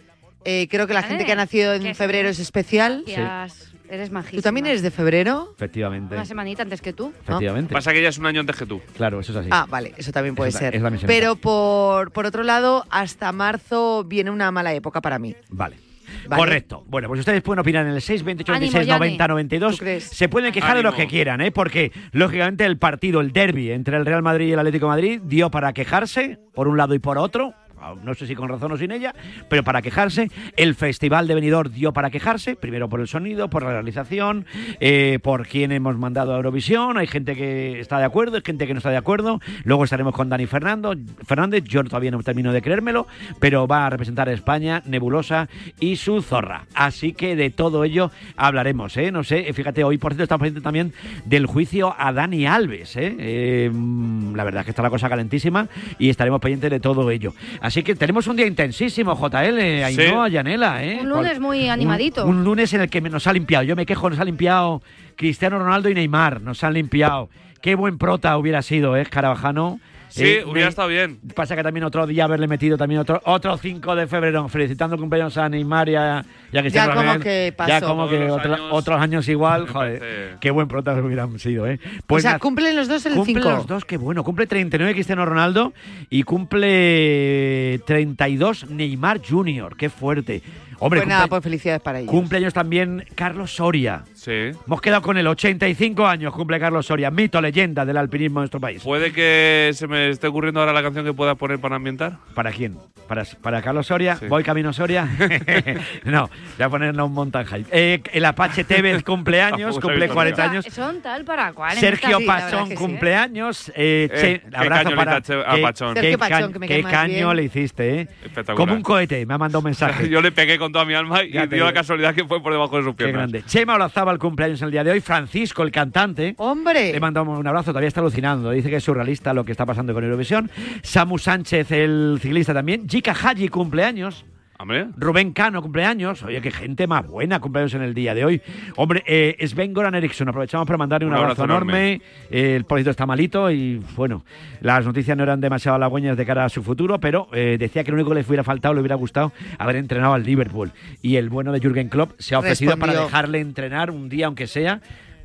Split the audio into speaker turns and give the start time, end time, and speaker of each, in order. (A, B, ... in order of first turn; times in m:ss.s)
0:00.4-0:03.1 A
0:01.0-0:02.4 B
0:03.0-0:04.8 B
0:03.1-0:03.3 C
0:04.4-0:05.5 A
0:05.6-0:06.3 C
0:06.1-0:07.2 B
0:07.3-0:07.8 C
0:07.7-0:08.8 D
0:08.9-0:09.6 C
0:09.5-0:15.4 A
0:10.4-0:11.3 C
0:15.5-1:22.4 C
0:16.3-0:16.6 A
0:18.5-0:19.3 B
0:19.7-0:20.1 A
0:20.6-0:21.1 D
0:59.8-1:00.2 D
1:00.9-1:02.4 B
1:10.2-1:11.2 D
1:16.7-1:18.0 A
1:17.9-1:18.9 D
1:19.5-1:20.4 D
1:22.1-1:23.7 A
1:23.1-1:31.4 C
1:30.9-1:32.3 A
1:32.1-1:34.1 C
1:34.2-1:34.6 D
1:34.6-1:38.9 C
1:38.8-1:42.2 D
1:42.3-1:50.7 C
1:45.2-1:45.8 D
1:49.5-1:50.5 D
1:50.0-1:53.0 B
1:51.7-2:00.1 C
1:52.1-1:53.0 A
1:54.1-1:56.1 D
1:55.9-1:57.4 A
1:58.2-1:58.9 D
1:59.8-2:03.3 D
2:01.3-2:01.8 C
2:03.0-2:06.4 C
2:06.4-2:07.0 A
2:06.9-2:14.2 C
2:14.6-2:14.9 D
2:15.0-2:34.8 C
2:21.0-2:21.9 D
2:32.4-2:33.1 A